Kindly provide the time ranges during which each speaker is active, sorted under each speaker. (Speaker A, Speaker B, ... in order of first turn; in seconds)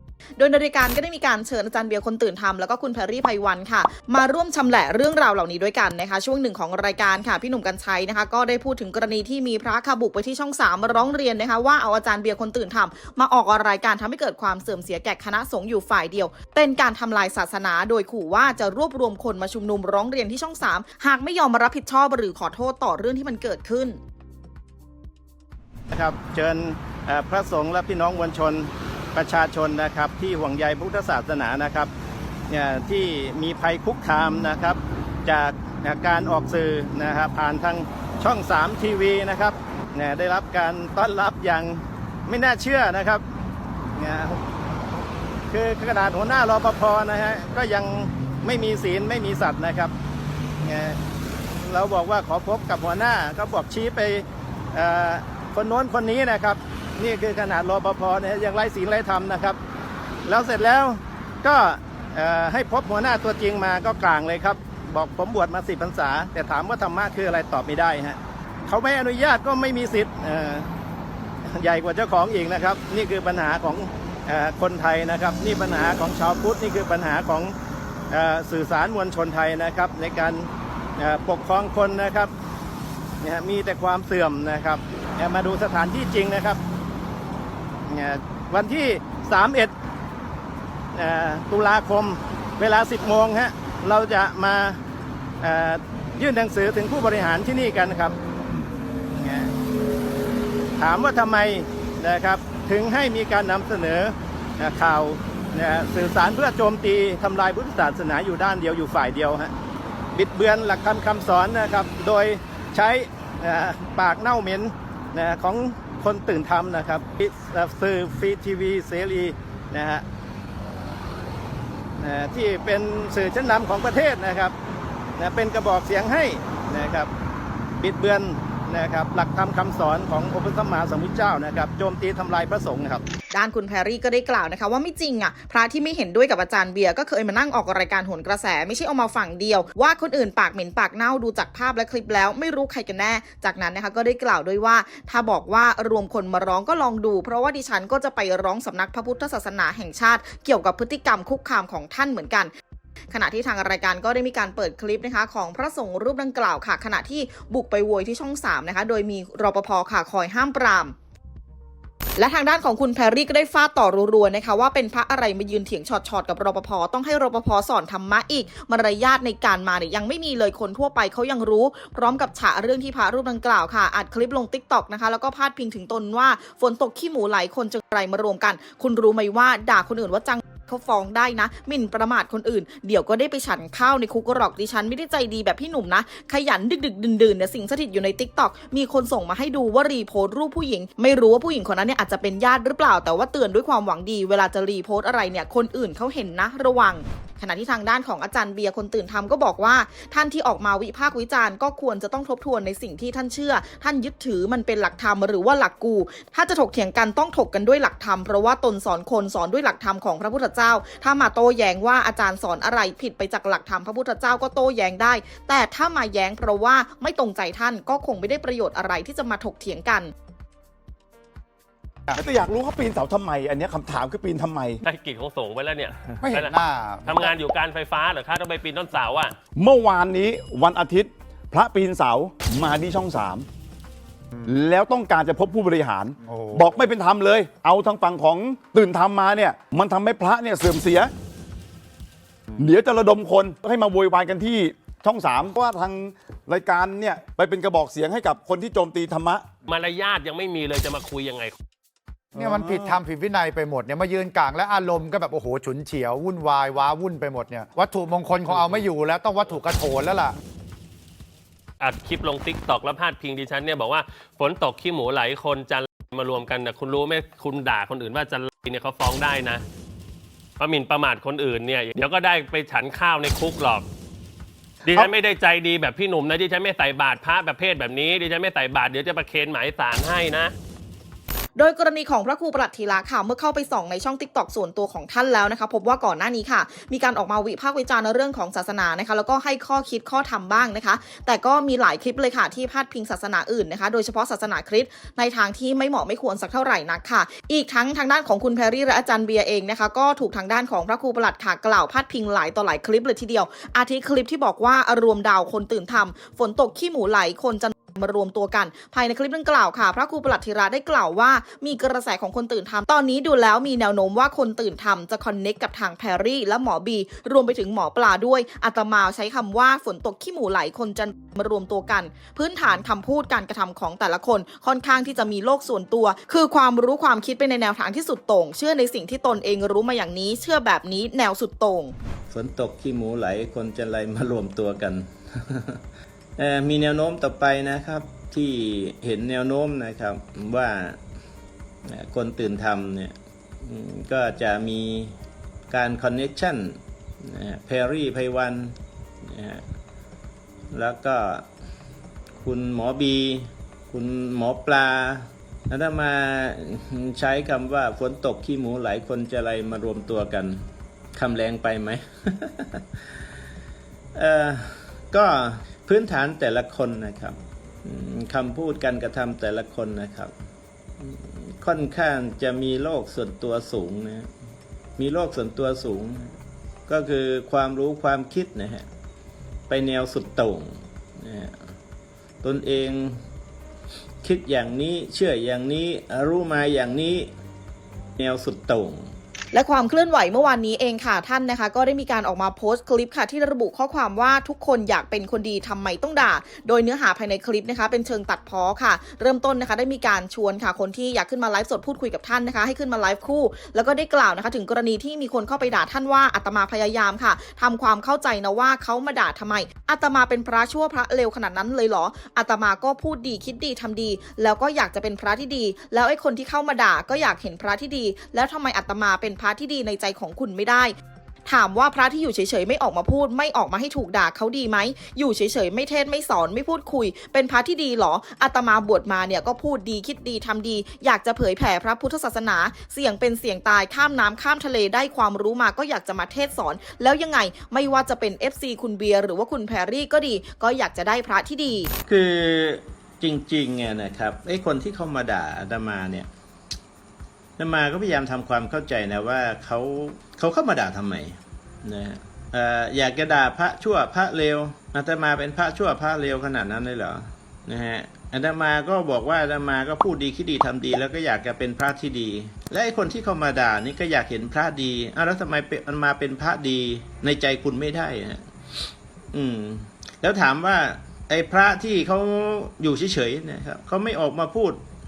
Speaker A: 0.4-24.0, 133.3-152.5, 153.1-160.9, 162.2-220.1, 281.6-331.9, 389.5-420.9, 421.5-441.9
Speaker B: 25.9-31.9, 32.5-43.2, 44.0-44.4, 45.5-49.9, 50.6-51.0, 51.6-59.6, 60.3-70.7, 71.5-77.5, 78.1-82.3, 83.2-86.6, 87.9-89.7, 91.0-94.8, 95.4-98.2, 99.1-99.5, 100.8-109.5, 110.1-120.0, 122.0-124.5, 125.2-127.1, 127.8-133.0
Speaker C: 222.1-224.8, 229.6-233.5, 234.5-241.1, 242.6-249.5, 252.4-253.0
Speaker D: 224.8-229.3, 249.7-251.6, 261.8-269.6, 270.6-273.9, 274.9-280.5
Speaker E: 226.2-227.3, 236.2-236.8, 252.3-260.4
Speaker F: 332.3-335.8, 336.4-341.0, 341.9-345.1, 345.7-349.6, 350.7-351.5, 352.4-362.8, 364.1-370.3, 371.0-374.3, 375.0-376.3, 376.9-378.9, 379.7-381.6, 382.4-383.2, 384.2-387.3, 388.2-389.1, 442.1-446.3, 447.6-468.4, 469.3-474.8